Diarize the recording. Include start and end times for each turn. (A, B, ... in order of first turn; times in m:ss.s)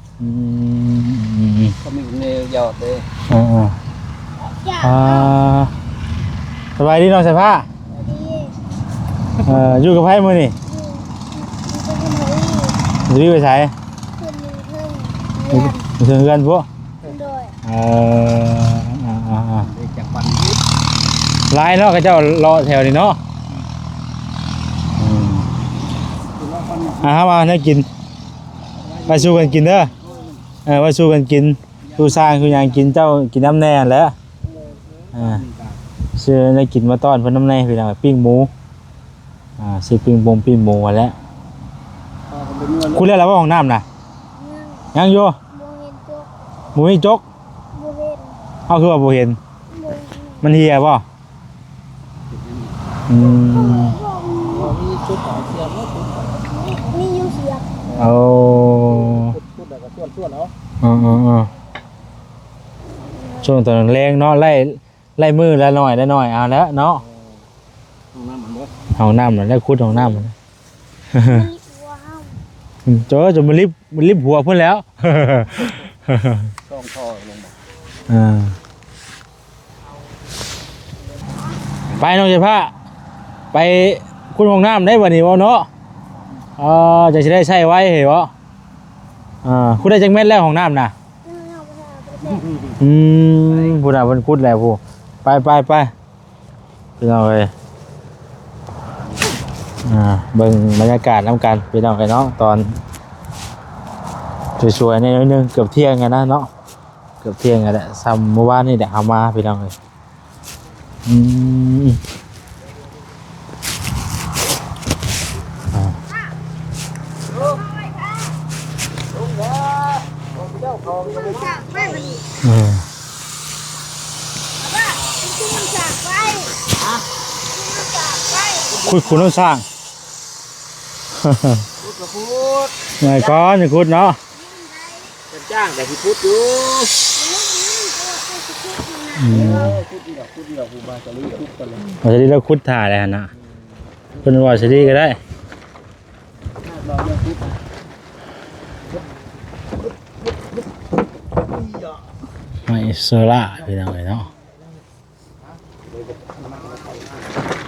0:00.2-0:01.8 A
0:01.8-0:03.0 B
0:03.3-0:03.8 A
0:04.5-0:05.4 C
0:04.8-0:05.7 A
0:06.8-0:07.7 A
0:07.9-0:08.6 C
0:09.4-0:10.6 A
0:10.6-0:12.8 C
0:13.1-0:13.7 A
0:14.2-0:15.8 C
0:15.5-0:16.7 A
0:17.0-0:17.5 C
0:17.6-0:19.7 A
0:19.6-0:20.6 B
0:21.5-0:23.2 A
0:25.0-0:25.5 A
0:26.4-0:27.1 B
0:27.0-0:27.9 A
0:28.8-0:30.4 B
0:28.8-0:30.3 C
0:29.1-0:29.9 A
0:30.6-0:34.1 A
0:31.8-0:32.9 B
0:35.0-0:35.8 B
0:35.1-0:35.4 A
0:36.2-0:38.5 A
0:39.6-0:41.2 A
0:42.3-0:43.1 B
0:42.9-0:43.8 A
0:44.3-0:44.9 C
0:44.9-0:45.4 A
0:45.5-0:46.3 C
0:46.7-0:47.2 A
0:47.7-0:48.4 C
0:48.7-0:49.4 A
0:49.7-0:50.5 C
0:50.4-0:51.0 A
0:52.3-0:52.7 B
0:53.1-0:54.0 A
0:53.2-0:54.8 C
0:54.5-0:56.4 B
0:56.4-0:57.7 C
0:57.9-0:58.2 B
0:58.0-0:59.4 A
0:58.7-1:00.5 B
1:00.8-1:01.5 A
1:03.1-1:03.5 C
1:03.4-1:07.0 A
1:08.1-1:08.7 B
1:09.0-1:10.3 A
1:11.1-1:11.5 A
1:11.2-1:12.4 C
1:12.8-1:16.5 A
1:16.7-1:17.5 B
1:18.1-1:18.5 A
1:21.9-1:22.7 A
1:23.5-1:25.7 A
1:26.6-1:28.3 A
1:29.4-1:30.9 A
1:31.2-1:32.4 C
1:32.2-1:32.8 B
1:32.8-1:35.9 A
1:33.5-1:33.8 B
1:37.0-1:37.5 A
1:39.8-1:42.8 A
1:44.6-1:46.5 A
1:47.2-1:49.7 A
1:51.0-1:52.0 A
1:55.7-1:56.0 A
1:57.3-1:57.6 B
1:57.5-1:58.2 C
1:59.1-2:02.0 B
2:01.0-2:02.2 C
2:02.4-2:02.8 A
2:04.6-2:06.7 C
2:07.4-2:08.8 C
2:08.7-2:09.3 B
2:08.8-2:09.6 A
2:11.2-2:11.6 A
2:11.8-2:12.8 B
2:13.0-2:14.2 A
2:13.1-2:13.5 C
2:14.3-2:15.1 C
2:15.3-2:17.0 B
2:17.1-2:19.7 C
2:19.2-2:19.8 A
2:19.3-2:22.0 B
2:22.0-2:23.3 A
2:24.1-2:24.9 B
2:24.2-2:25.2 A
2:26.6-2:27.6 B
2:29.8-2:30.6 B
2:31.6-2:32.0 B
2:32.6-2:34.3 A
2:35.7-2:37.3 B